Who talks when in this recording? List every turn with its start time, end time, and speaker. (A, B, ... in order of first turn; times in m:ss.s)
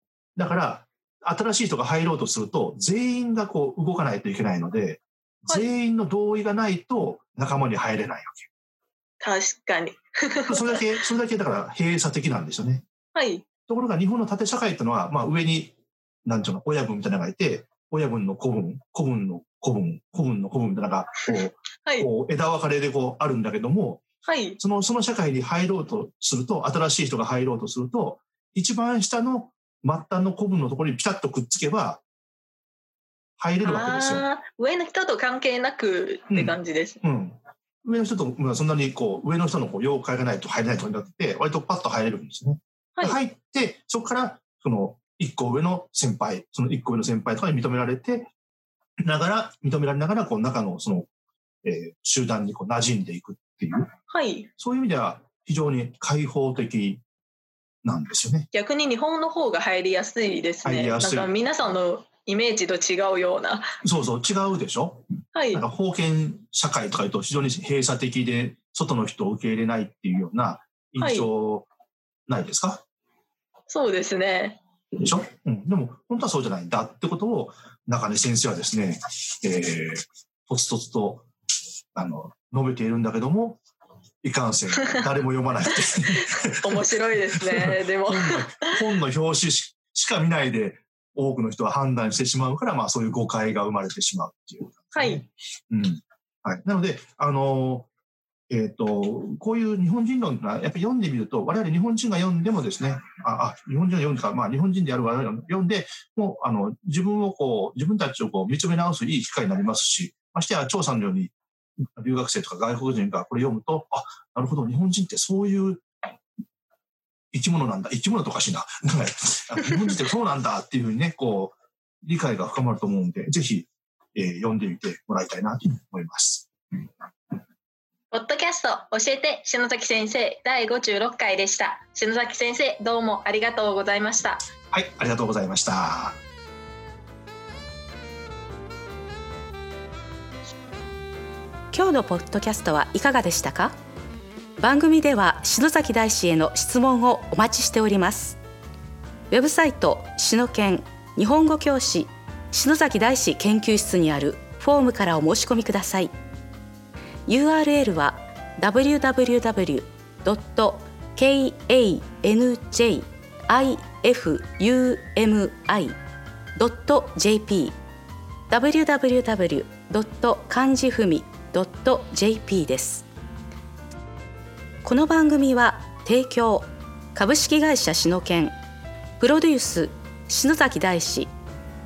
0:00.4-0:08.5 A
0:09.2-0:10.9 B
0:10.5-0:12.8 A
0:13.1-0:13.5 B
0:13.7-0:15.7 A
0:16.2-0:24.0 A
0:21.3-0:22.1 B
0:24.2-0:24.6 B
0:24.6-0:32.0 A
0:33.4-0:34.2 A
0:33.6-0:37.0 B
0:36.3-0:48.3 A
0:43.0-0:43.2 B
0:49.0-0:51.1 A
0:51.6-0:53.9 A
0:54.1-0:54.5 B
0:54.6-0:57.0 A
0:57.8-0:58.5 A
0:58.5-1:03.7 B
1:00.6-1:01.3 A
1:03.8-1:11.7 A
1:05.4-1:05.6 B
1:11.0-1:11.3 B
1:12.3-1:12.8 A
1:13.7-1:14.6 B
1:15.0-1:21.3 A
1:22.0-1:23.6 A
1:24.2-1:37.9 A
1:26.2-1:28.7 B
1:34.9-1:35.2 B
1:38.5-1:51.3 A
1:52.0-1:55.8 A
1:57.3-2:06.5 A
2:08.1-2:14.5 B
2:14.7-2:16.2 A
2:21.7-2:23.7 C
2:24.6-2:28.4 C
2:29.3-2:36.1 C
2:37.3-2:46.0 C
2:46.6-2:47.8 C
2:48.5-2:53.1 C
2:54.8-2:58.6 C
2:59.2-3:01.3 C